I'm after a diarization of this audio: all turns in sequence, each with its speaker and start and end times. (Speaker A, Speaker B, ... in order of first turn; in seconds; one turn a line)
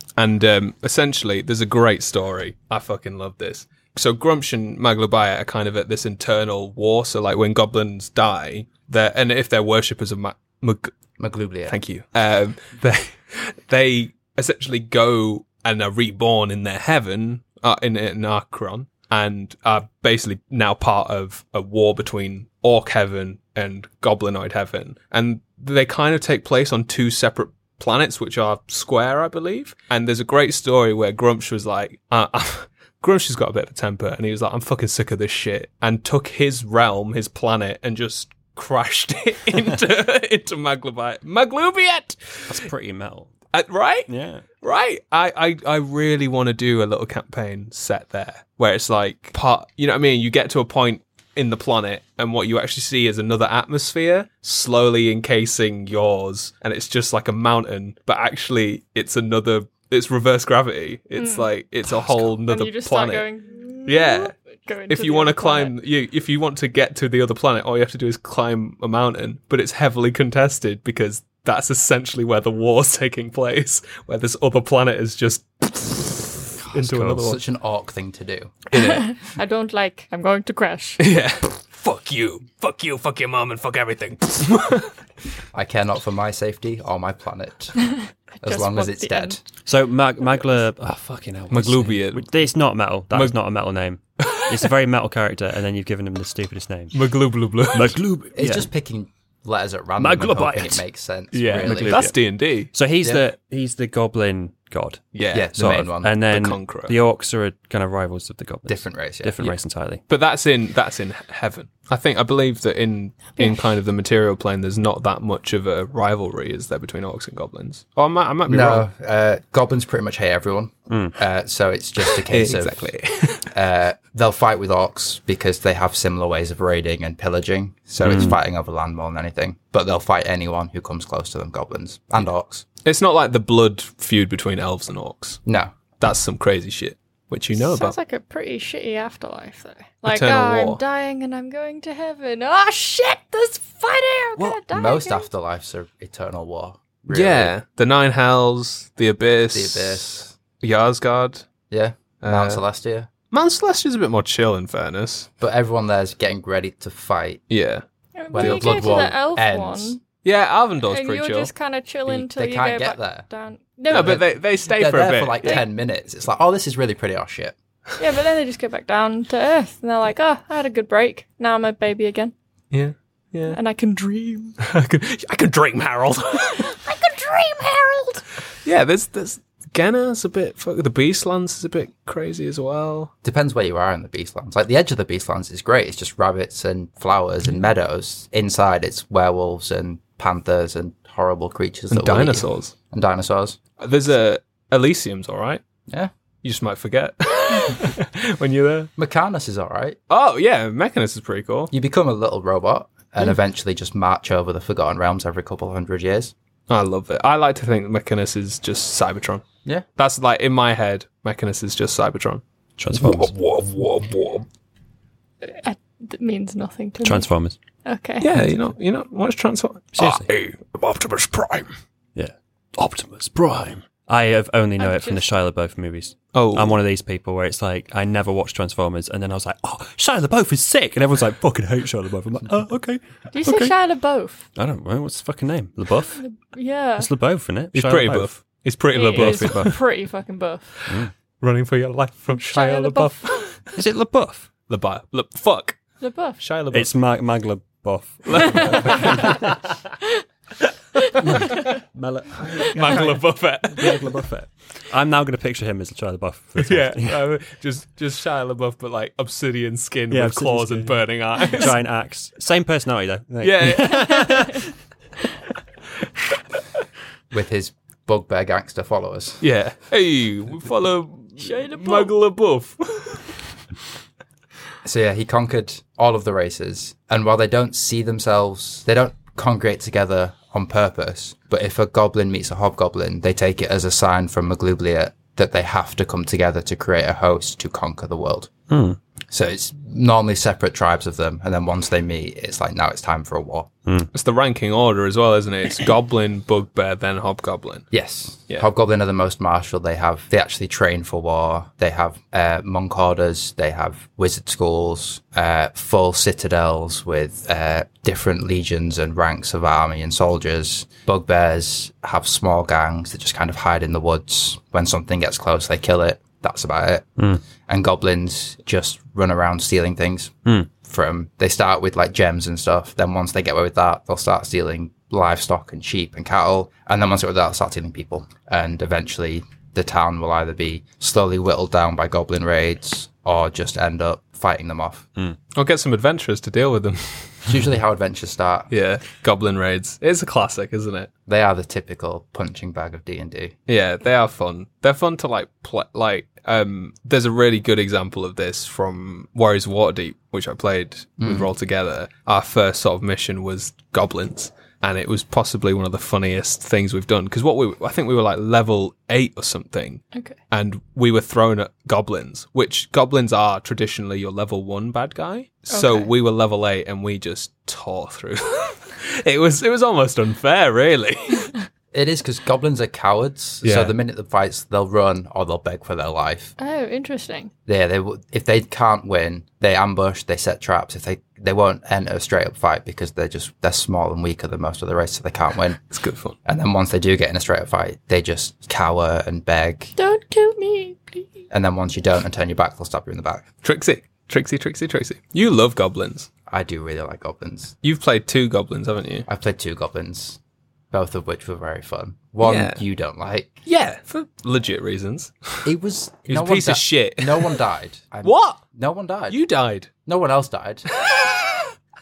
Speaker A: 0.2-10.9
Speaker B: 11.2-11.8
Speaker A: 11.7-42.6
Speaker C: 42.5-43.3
Speaker A: 43.5-63.3
Speaker C: 44.1-44.4
Speaker D: 61.2-61.5
Speaker D: 62.4-65.8
Speaker A: 63.9-64.3
Speaker A: 64.9-77.4
Speaker C: 76.7-77.3
Speaker B: 77.2-78.6
Speaker A: 78.7-79.1
Speaker D: 78.7-81.0
Speaker A: 81.0-84.9
Speaker B: 85.5-87.9
Speaker D: 87.8-89.4
Speaker B: 88.4-89.4
Speaker C: 89.7-97.0
Speaker A: 91.5-92.3
Speaker A: 93.1-93.4
Speaker A: 94.2-94.7
Speaker A: 96.9-98.0
Speaker C: 97.7-98.7
Speaker B: 98.3-102.1
Speaker C: 100.0-100.8
Speaker A: 101.3-102.7
Speaker C: 101.5-105.0
Speaker A: 105.1-105.5
Speaker B: 105.3-106.2
Speaker C: 105.5-110.0
Speaker A: 106.3-107.0
Speaker B: 108.7-109.4
Speaker A: 110.1-118.9
Speaker D: 113.4-113.7
Speaker B: 118.5-122.8
Speaker C: 120.9-121.2
Speaker A: 122.3-123.5
Speaker B: 123.5-132.7
Speaker C: 128.0-128.4
Speaker A: 132.8-135.4
Speaker B: 135.5-135.7
Speaker A: 136.0-137.9
Speaker D: 137.6-145.3
Speaker A: 140.1-140.8
Speaker B: 144.7-147.5
Speaker A: 147.1-151.5
Speaker B: 149.5-150.3
Speaker B: 151.7-153.1
Speaker A: 152.2-152.6
Speaker A: 153.3-155.3
Speaker B: 155.4-157.4
Speaker A: 157.5-159.1
Speaker D: 158.2-160.0
Speaker B: 158.3-160.0
Speaker A: 160.2-161.5
Speaker D: 160.9-164.2
Speaker B: 162.1-163.3
Speaker A: 163.9-165.6
Speaker B: 163.9-167.6
Speaker D: 168.0-172.3
Speaker A: 172.7-173.6
Speaker D: 173.5-174.6
Speaker A: 174.6-176.8
Speaker D: 176.6-178.2
Speaker A: 178.6-183.1
Speaker B: 183.2-193.6
Speaker A: 191.9-192.7
Speaker A: 193.8-195.6
Speaker A: 196.4-198.9
Speaker B: 199.0-200.0
Speaker A: 200.1-201.7
Speaker B: 201.7-206.3
Speaker A: 206.7-209.4
Speaker A: 210.0-212.4
Speaker C: 212.8-213.3
Speaker A: 212.9-214.4
Speaker D: 215.4-217.3
Speaker C: 217.0-217.6
Speaker D: 217.8-218.3
Speaker A: 218.2-221.7
Speaker C: 219.9-220.3
Speaker C: 222.2-233.8
Speaker D: 224.8-225.3
Speaker A: 226.3-226.8
Speaker D: 233.3-234.5
Speaker C: 234.6-236.2
Speaker D: 236.1-237.1
Speaker C: 237.0-238.3
Speaker A: 237.7-239.8
Speaker D: 238.9-240.8
Speaker C: 239.1-239.8
Speaker A: 241.4-243.7
Speaker D: 242.4-243.3
Speaker C: 243.7-244.5
Speaker A: 244.7-245.8
Speaker D: 246.0-246.4
Speaker A: 246.4-246.9
Speaker C: 246.7-249.7
Speaker A: 248.2-249.5
Speaker D: 248.6-249.3
Speaker D: 251.0-251.7
Speaker C: 251.1-253.2
Speaker A: 252.7-254.1
Speaker C: 253.8-257.2
Speaker A: 256.6-261.8
Speaker C: 260.1-264.7
Speaker A: 263.4-264.4
Speaker D: 264.1-264.4
Speaker B: 267.3-269.4
Speaker A: 269.4-273.4
Speaker D: 271.4-272.1
Speaker B: 274.8-288.5
Speaker C: 288.7-289.0
Speaker B: 289.3-293.7
Speaker A: 294.1-297.9
Speaker B: 297.9-335.1
Speaker A: 335.6-337.5
Speaker B: 337.5-338.7
Speaker A: 338.7-341.1
Speaker B: 341.3-343.6
Speaker A: 343.7-371.6
Speaker B: 351.2-351.5
Speaker D: 365.7-366.1
Speaker B: 371.9-376.5
Speaker A: 373.6-373.9
Speaker D: 376.6-377.5
Speaker B: 377.7-385.8
Speaker A: 385.9-386.4
Speaker B: 386.4-389.9
Speaker D: 390.0-391.3
Speaker B: 391.5-393.4
Speaker A: 393.6-396.3
Speaker B: 396.5-397.8
Speaker A: 397.8-399.3
Speaker B: 399.3-400.4
Speaker B: 400.9-403.6
Speaker A: 402.4-402.8
Speaker A: 403.6-405.7
Speaker B: 405.6-409.4
Speaker A: 406.3-407.6
Speaker A: 408.2-408.6
Speaker A: 409.3-409.9
Speaker B: 410.1-410.9
Speaker A: 410.9-411.7